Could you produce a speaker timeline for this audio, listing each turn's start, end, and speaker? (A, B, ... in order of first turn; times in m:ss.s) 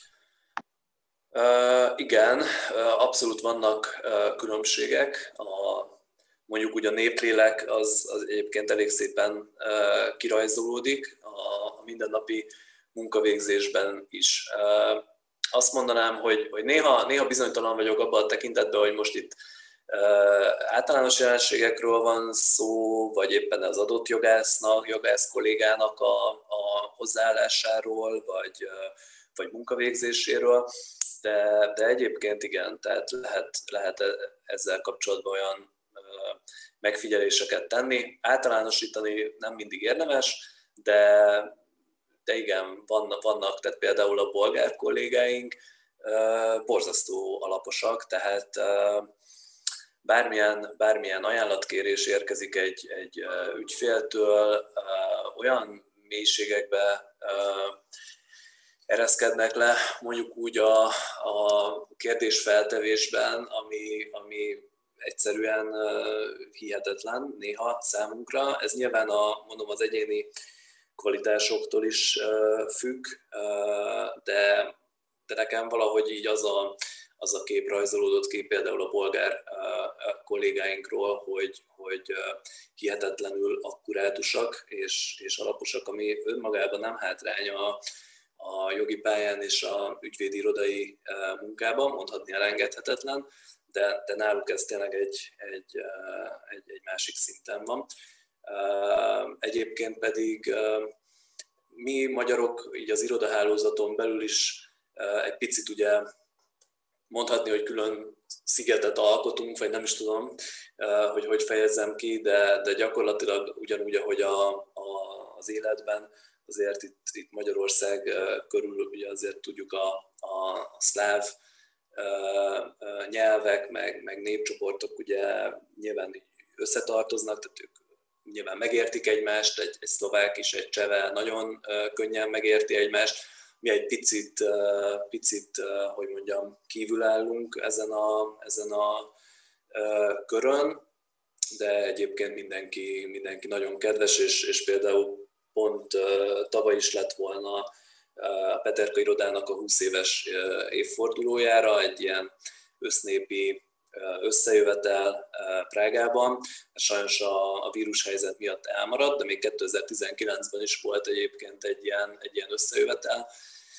0:01.3-0:06.0 A
0:06.5-0:19.4 A
0:19.9-0:30.7 A
0:31.2-0:41.6 A
0:42.3-0:49.1 A
0:50.0-0:57.8 A
0:58.9-1:10.3 A
1:11.0-1:14.7 A
1:15.3-1:27.8 A
1:28.4-1:37.9 A
1:38.4-1:40.9 A
1:41.7-1:46.1 A
1:47.1-2:01.4 A
2:02.0-2:19.1 A
2:19.7-2:20.8 A
2:21.6-2:43.3 A